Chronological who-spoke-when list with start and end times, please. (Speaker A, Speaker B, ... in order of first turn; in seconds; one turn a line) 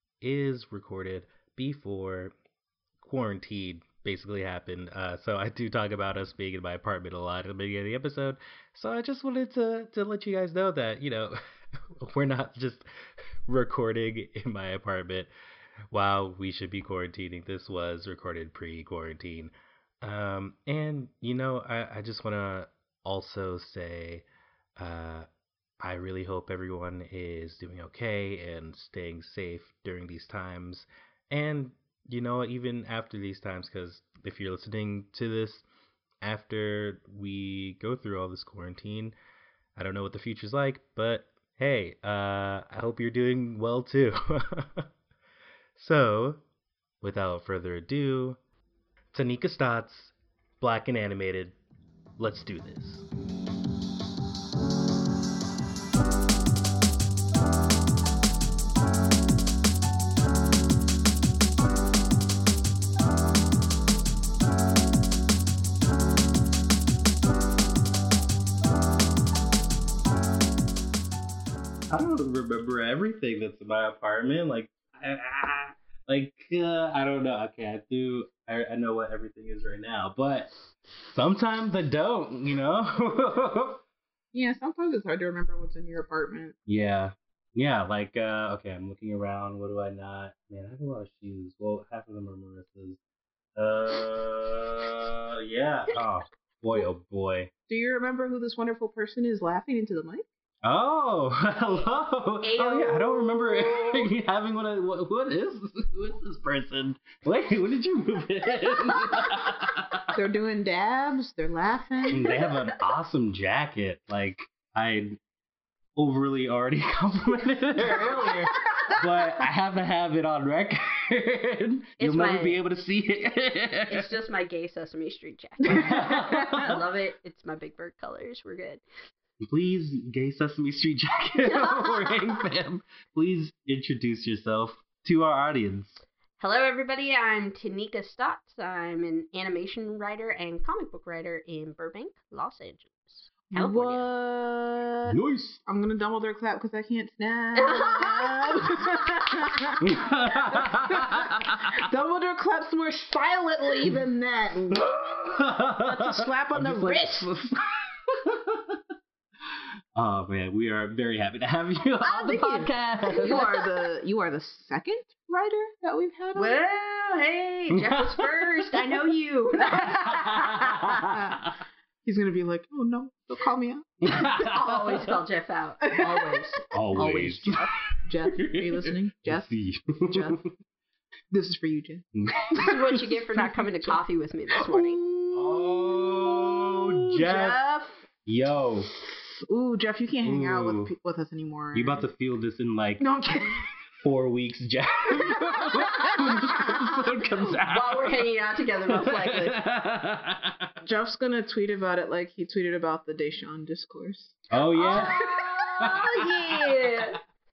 Speaker A: 0.2-2.3
Speaker A: 3.0-11.4
Speaker A: 12.0-12.9
Speaker A: 13.5-15.3
Speaker A: 15.9-24.2
Speaker A: 24.8-25.3
Speaker A: 25.8-35.6
Speaker A: 36.2-39.1
Speaker A: 39.8-44.9
Speaker A: 45.8-46.4
Speaker A: 47.0-48.4
Speaker A: 49.1-51.5
Speaker A: 52.2-53.0
Speaker A: 71.9-83.8
Speaker B: 84.3-86.5
Speaker A: 86.7-93.0
Speaker A: 93.6-97.5
Speaker B: 97.7-100.3
Speaker A: 100.6-110.0
Speaker C: 102.4-104.1
Speaker B: 110.1-112.2
Speaker A: 112.1-115.2
Speaker A: 116.0-124.1
Speaker C: 117.8-118.9
Speaker C: 122.0-122.6
Speaker C: 123.9-128.8
Speaker A: 125.7-126.8
Speaker A: 129.4-136.0
Speaker C: 131.5-132.1
Speaker C: 136.4-144.1
Speaker B: 143.5-154.9
Speaker A: 145.1-145.6
Speaker C: 147.6-149.8
Speaker A: 149.8-151.8
Speaker A: 154.7-158.8
Speaker B: 155.8-157.5
Speaker A: 159.9-163.4
Speaker C: 162.0-163.6
Speaker B: 163.2-166.6
Speaker C: 166.3-170.3
Speaker A: 169.8-171.4
Speaker B: 170.4-171.4
Speaker B: 172.1-174.3
Speaker A: 174.1-175.0
Speaker C: 174.4-177.7
Speaker B: 175.9-180.4
Speaker A: 176.7-177.6
Speaker A: 178.2-180.4
Speaker B: 181.3-184.0
Speaker A: 182.2-182.5
Speaker C: 182.6-185.0
Speaker B: 184.5-188.0
Speaker A: 185.3-187.6
Speaker A: 188.3-188.9
Speaker B: 189.1-192.1
Speaker A: 190.2-190.9
Speaker A: 191.7-193.1
Speaker B: 193.0-193.7
Speaker A: 194.0-198.2
Speaker B: 195.1-196.8
Speaker C: 195.6-199.6
Speaker A: 198.9-200.7
Speaker B: 200.8-205.5
Speaker A: 204.5-205.2
Speaker C: 204.8-207.2
Speaker A: 205.8-206.1